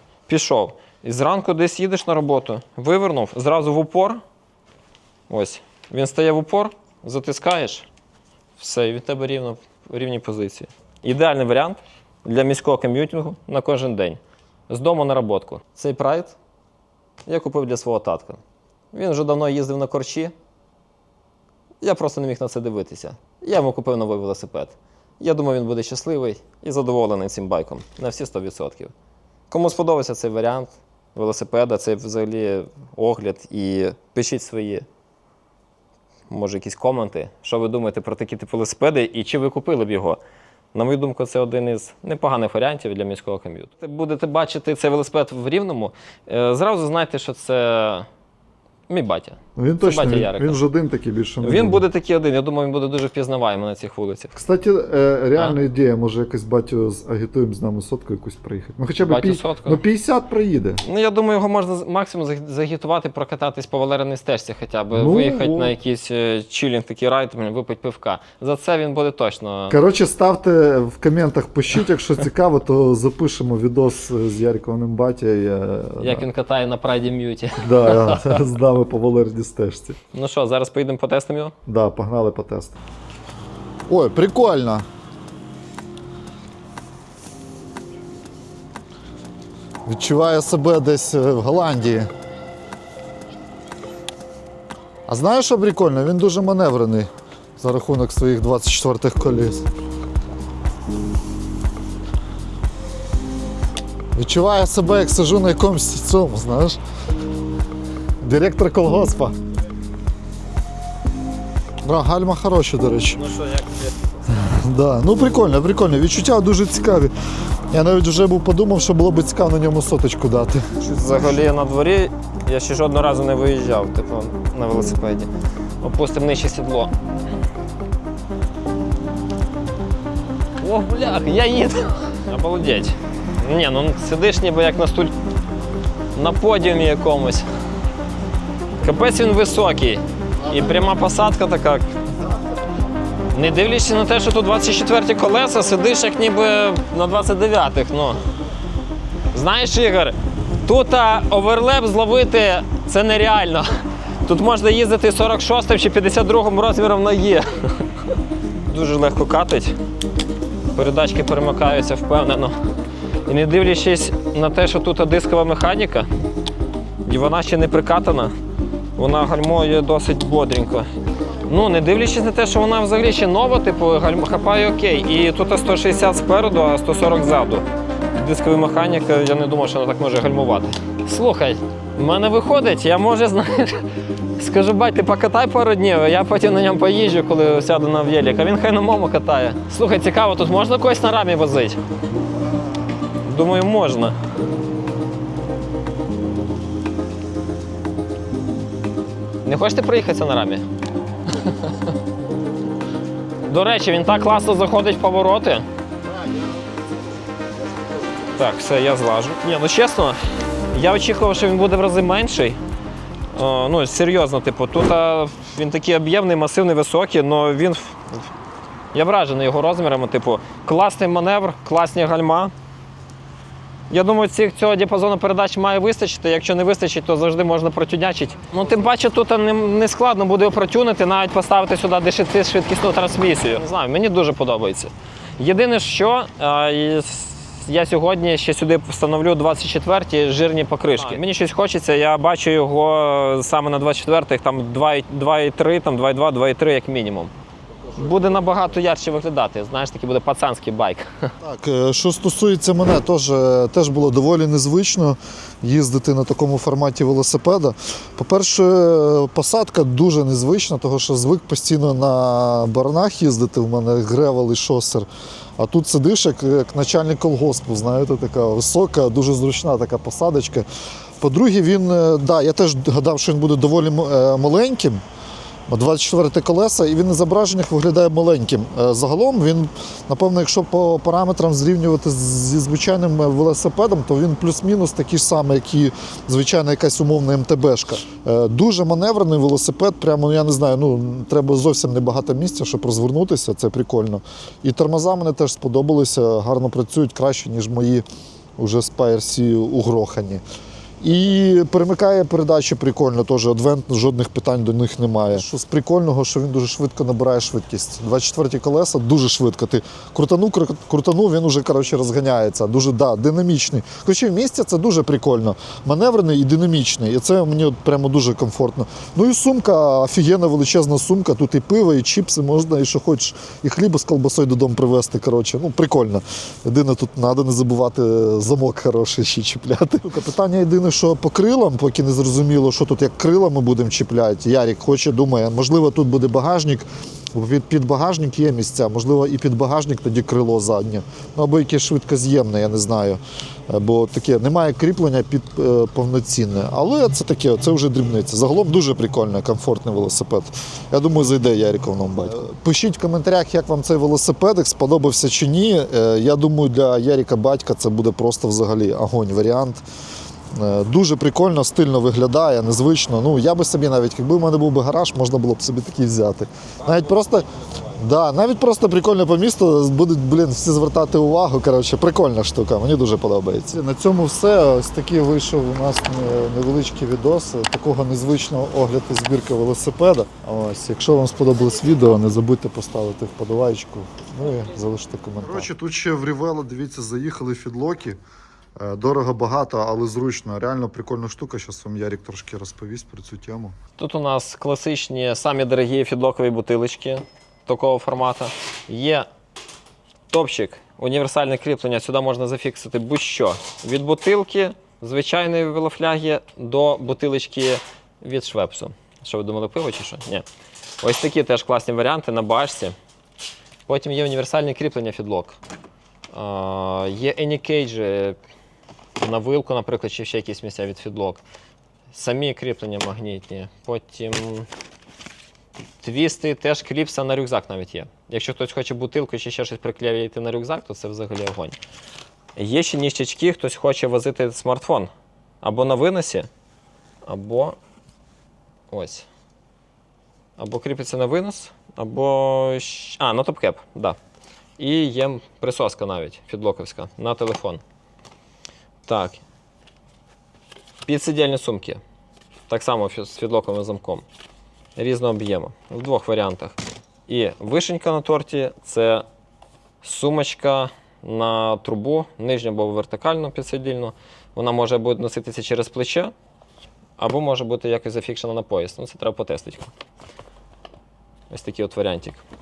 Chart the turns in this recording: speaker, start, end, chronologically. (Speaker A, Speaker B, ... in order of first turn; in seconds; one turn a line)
Speaker A: 0.3-4.2
Speaker A: 5.3-7.9
Speaker A: 8.6-16.4
Speaker A: 17.3-18.4
Speaker A: 18.9-20.3
Speaker A: 21.8-28.9
Speaker A: 29.5-34.9
Speaker A: 36.3-40.2
Speaker A: 40.7-48.1
Speaker A: 48.9-50.6
Speaker B: 49.6-51.8
Speaker A: 51.4-54.3
Speaker B: 54.4-60.8
Speaker A: 59.0-59.8
Speaker A: 60.8-69.8
Speaker B: 64.9-65.7
Speaker B: 69.7-76.2
Speaker A: 76.0-78.5
Speaker B: 77.6-80.0
Speaker A: 80.1-81.5
Speaker B: 81.7-82.8
Speaker B: 83.9-84.8
Speaker B: 89.9-92.1
Speaker B: 95.1-99.7
Speaker B: 104.2-106.8
Speaker B: 108.2-109.4
Speaker B: 111.8-113.2
Speaker A: 113.1-114.1
Speaker B: 114.3-117.1
Speaker B: 117.7-120.7
Speaker A: 120.8-125.3
Speaker A: 125.8-127.0
Speaker A: 130.6-135.1
Speaker A: 136.1-137.5
Speaker A: 138.8-141.9
Speaker A: 143.3-148.2
Speaker A: 149.3-159.8
Speaker A: 160.7-162.6
Speaker A: 163.3-166.1
Speaker A: 167.0-168.3
Speaker A: 169.0-191.8
Speaker A: 193.2-194.2
Speaker A: 199.4-200.7
Speaker A: 201.3-201.9
Speaker A: 203.4-205.7
Speaker A: 208.3-210.2
Speaker A: 210.7-212.6
Speaker A: 213.3-218.3
Speaker A: 218.9-222.5
Speaker A: 223.9-247.3
Speaker A: 247.9-251.3
Speaker B: 251.4-265.1
Speaker B: 265.6-270.7
Speaker B: 271.2-275.0
Speaker B: 275.7-298.1
Speaker B: 298.6-300.4
Speaker B: 301.0-359.8
Speaker B: 360.5-388.2
Speaker A: 366.8-368.0
Speaker B: 388.8-393.8
Speaker A: 394.0-399.3
Speaker A: 400.3-410.4
Speaker A: 411.0-413.0
Speaker A: 413.9-415.6
Speaker A: 416.3-418.4
Speaker A: 419.2-421.4
Speaker A: 422.1-424.7
Speaker A: 426.0-431.8
Speaker A: 432.6-435.1
Speaker A: 435.6-436.5
Speaker A: 437.2-437.8
Speaker A: 438.9-439.3
Speaker A: 440.6-444.2
Speaker A: 444.8-447.8
Speaker A: 449.1-449.4
Speaker A: 451.1-452.0
Speaker A: 452.7-454.2
Speaker A: 455.0-459.2
Speaker A: 460.0-466.3
Speaker A: 467.2-469.9
Speaker A: 471.5-472.4